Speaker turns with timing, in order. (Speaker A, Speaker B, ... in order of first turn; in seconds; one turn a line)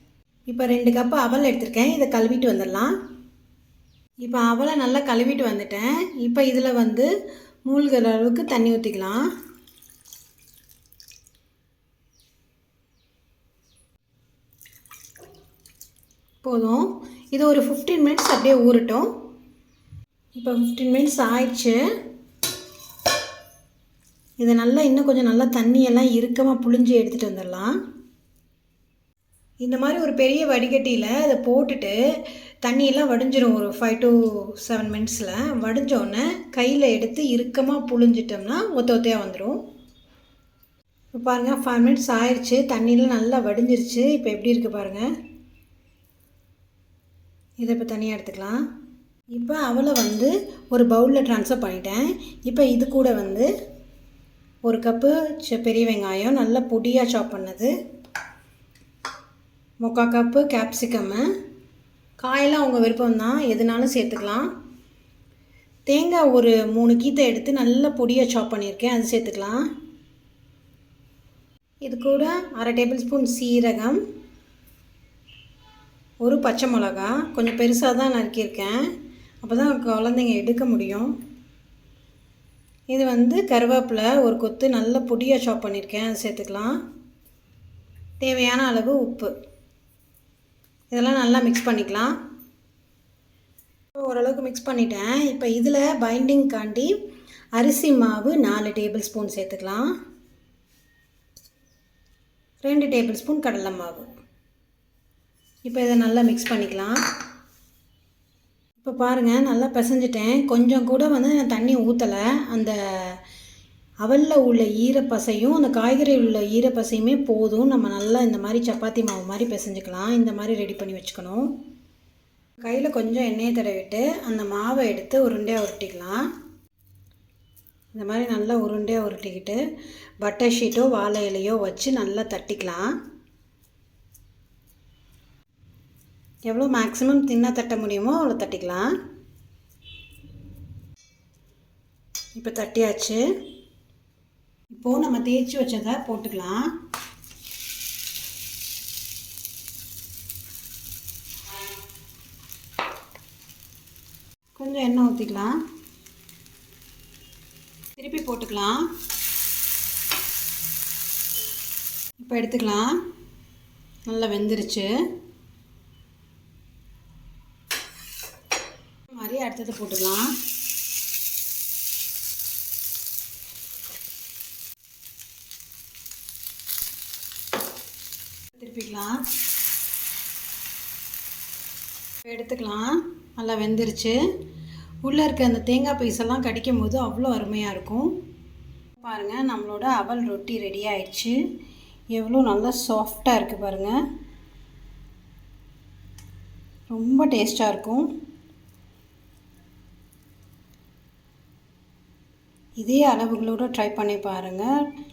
Speaker A: 0.5-2.9
Speaker A: 4.2-7.1
Speaker A: 7.7-9.2
Speaker A: 16.4-19.1
Speaker A: 20.3-21.8
Speaker A: 24.4-27.7
Speaker A: 29.6-32.0
Speaker A: 32.6-39.6
Speaker A: 41.1-45.1
Speaker A: 47.6-48.6
Speaker A: 49.3-53.5
Speaker A: 54.6-57.7
Speaker A: 59.8-61.3
Speaker A: 62.2-64.5
Speaker A: 65.9-69.6
Speaker A: 71.8-74.0
Speaker A: 76.2-78.8
Speaker A: 79.4-81.1
Speaker A: 82.9-86.8
Speaker A: 88.2-89.3
Speaker A: 90.9-92.1
Speaker A: 94.0-96.9
Speaker A: 97.5-99.9
Speaker A: 102.6-104.0
Speaker A: 105.6-107.0
Speaker A: 108.8-113.2
Speaker A: 114.0-121.5
Speaker A: 122.6-126.2
Speaker A: 127.9-129.6
Speaker A: 130.2-132.9
Speaker A: 136.4-138.9
Speaker A: 142.3-143.2
Speaker A: 144.7-146.6
Speaker A: 154.5-155.5
Speaker A: 157.9-158.8
Speaker A: 162.2-163.0
Speaker A: 164.1-164.9
Speaker A: 169.1-170.3
Speaker A: 178.5-179.2
Speaker A: 182.2-184.2
Speaker A: 185.0-188.1
Speaker A: 189.0-191.4
Speaker A: 192.1-194.0
Speaker A: 196.9-198.1
Speaker A: 202.8-204.7